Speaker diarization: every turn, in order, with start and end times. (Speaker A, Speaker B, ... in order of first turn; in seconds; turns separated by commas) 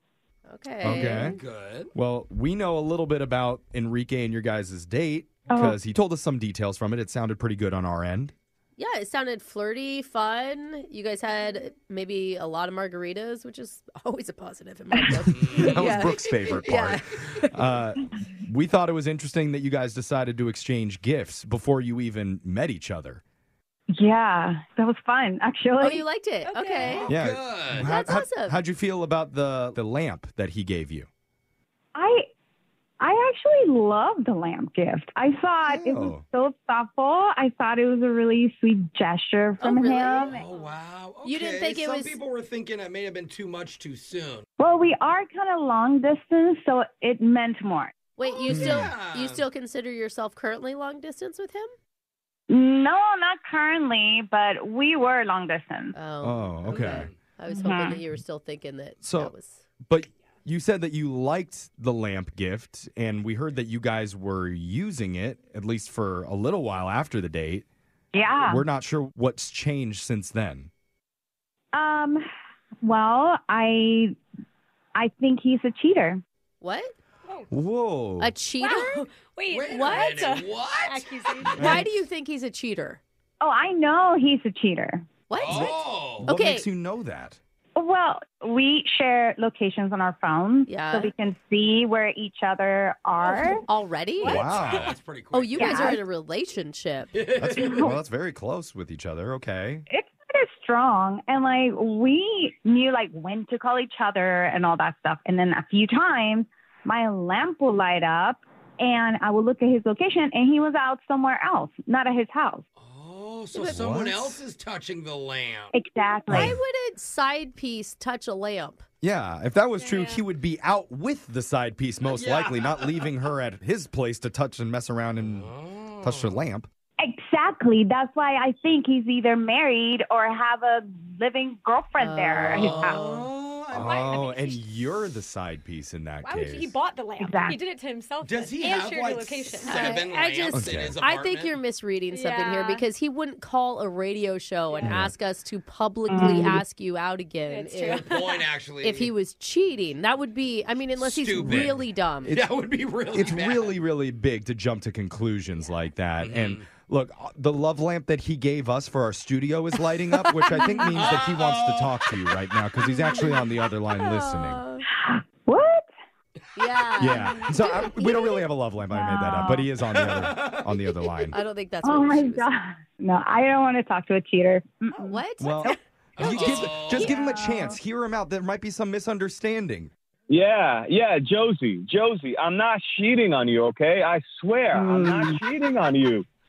Speaker A: 0.5-1.4, Speaker B: 0.8-1.4, Speaker C: 0.9-1.9, Speaker B: 1.9-8.3, Speaker D: 5.5-5.8, Speaker A: 8.8-17.4, Speaker B: 15.1-23.2, Speaker C: 15.3-15.9, Speaker D: 23.9-26.0, Speaker A: 25.8-27.1, Speaker E: 26.4-27.0, Speaker C: 26.8-27.9, Speaker B: 27.1-31.1, Speaker A: 27.7-28.6, Speaker D: 31.9-32.3, Speaker D: 33.0-40.4, Speaker B: 35.6-36.2, Speaker A: 39.6-40.6, Speaker C: 40.2-44.4, Speaker A: 41.2-42.2, Speaker D: 44.6-48.1, Speaker A: 48.2-51.7, Speaker C: 48.2-49.5, Speaker B: 48.5-48.9, Speaker D: 52.5-55.9, Speaker A: 55.9-59.6, Speaker B: 56.2-57.1, Speaker C: 56.6-57.2, Speaker D: 57.5-58.0, Speaker B: 59.0-59.3, Speaker B: 59.9-67.6, Speaker D: 68.1-68.6, Speaker B: 68.5-70.7, Speaker D: 71.7-72.2, Speaker D: 72.8-74.1, Speaker D: 75.0-76.2, Speaker A: 76.6-76.9, Speaker E: 77.3-77.5, Speaker B: 77.5-78.3, Speaker A: 78.2-79.0, Speaker E: 78.6-81.9, Speaker C: 79.5-81.2, Speaker A: 79.7-80.4, Speaker B: 81.5-81.9, Speaker A: 81.6-83.0, Speaker D: 83.4-85.1, Speaker A: 85.3-86.7, Speaker C: 85.3-86.3, Speaker B: 85.5-87.4, Speaker D: 87.8-93.6, Speaker A: 90.7-91.2, Speaker A: 93.6-94.4, Speaker E: 94.2-95.0, Speaker B: 94.2-95.0, Speaker C: 94.3-95.9, Speaker A: 95.3-97.1, Speaker D: 95.5-96.0, Speaker C: 97.1-97.9, Speaker B: 97.4-99.8, Speaker D: 99.9-112.6, Speaker C: 112.8-115.8, Speaker A: 113.5-114.0, Speaker B: 113.6-114.4, Speaker D: 115.7-116.6, Speaker A: 116.3-118.8, Speaker B: 119.0-126.7, Speaker E: 119.7-120.2, Speaker C: 122.0-123.1, Speaker C: 125.2-126.4, Speaker D: 127.0-133.2, Speaker A: 132.0-133.3, Speaker C: 132.4-134.4, Speaker B: 133.7-136.7, Speaker E: 136.2-140.0, Speaker D: 137.2-137.6, Speaker C: 138.2-141.6, Speaker A: 139.6-152.4, Speaker B: 140.5-140.9, Speaker E: 142.1-142.8, Speaker E: 144.7-145.1, Speaker B: 144.8-145.1, Speaker D: 146.1-146.6, Speaker E: 147.4-148.3, Speaker C: 147.9-149.1, Speaker C: 150.9-153.8, Speaker B: 151.4-152.5, Speaker B: 153.1-164.6, Speaker C: 156.2-156.7, Speaker D: 160.5-161.1, Speaker C: 160.9-162.1, Speaker A: 162.8-163.3, Speaker A: 163.9-164.8, Speaker D: 164.9-165.9, Speaker A: 166.6-168.4, Speaker B: 167.0-171.4, Speaker D: 167.0-168.2, Speaker D: 168.9-169.7, Speaker C: 169.9-171.2, Speaker A: 171.3-172.5, Speaker D: 171.8-175.7, Speaker A: 174.9-177.2, Speaker B: 175.4-179.9, Speaker C: 176.2-176.9, Speaker D: 176.4-177.8, Speaker F: 180.3-186.2, Speaker D: 184.7-185.4